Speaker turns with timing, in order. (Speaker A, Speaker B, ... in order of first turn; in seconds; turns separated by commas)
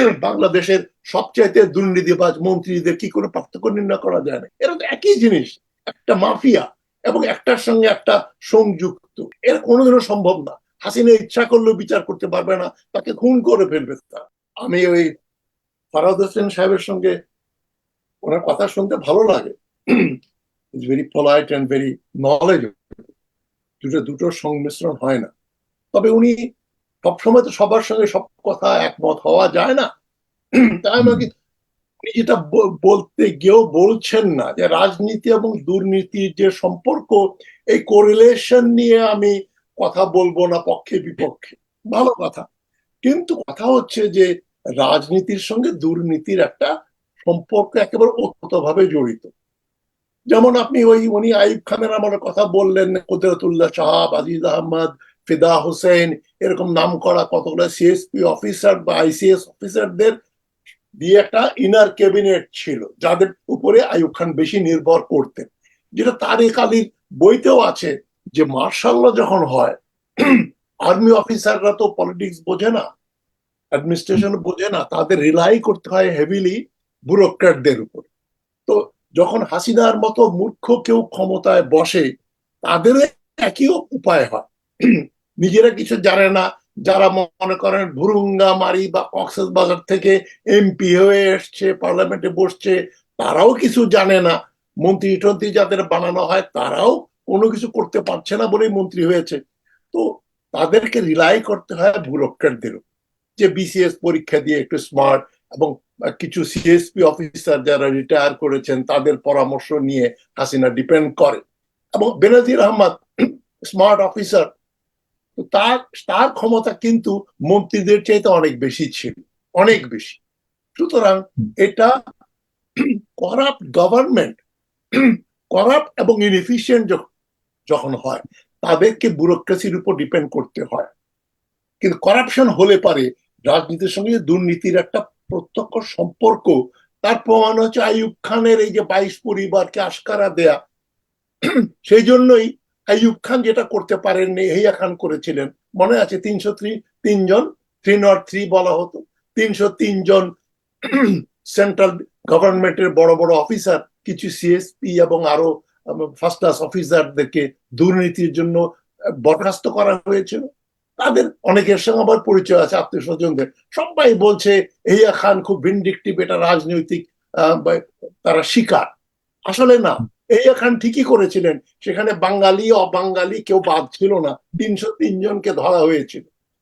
Speaker A: 0.2-15.1, Speaker A: 15.9-17.1, Speaker A: 18.2-20.1, Speaker A: 20.8-22.8, Speaker A: 23.8-25.3, Speaker A: 25.9-26.4, Speaker A: 27.0-29.9, Speaker A: 30.8-31.3, Speaker A: 32.0-42.4, Speaker A: 43.0-44.3, Speaker A: 44.8-46.7, Speaker A: 47.2-49.3, Speaker A: 50.3-60.1, Speaker A: 61.0-72.8, Speaker A: 73.7-78.1, Speaker A: 78.7-82.0, Speaker A: 82.6-99.4, Speaker A: 99.9-102.8, Speaker A: 103.4-111.4, Speaker A: 112.0-113.0, Speaker A: 113.7-114.5, Speaker A: 115.4-120.2, Speaker A: 120.8-121.9, Speaker A: 123.2-124.4, Speaker A: 125.0-127.0, Speaker A: 127.7-130.9, Speaker A: 131.8-136.5, Speaker A: 137.0-140.6, Speaker A: 141.9-150.2, Speaker A: 150.9-155.5, Speaker A: 156.0-158.6, Speaker A: 159.2-160.4, Speaker A: 161.0-168.8, Speaker A: 169.5-176.3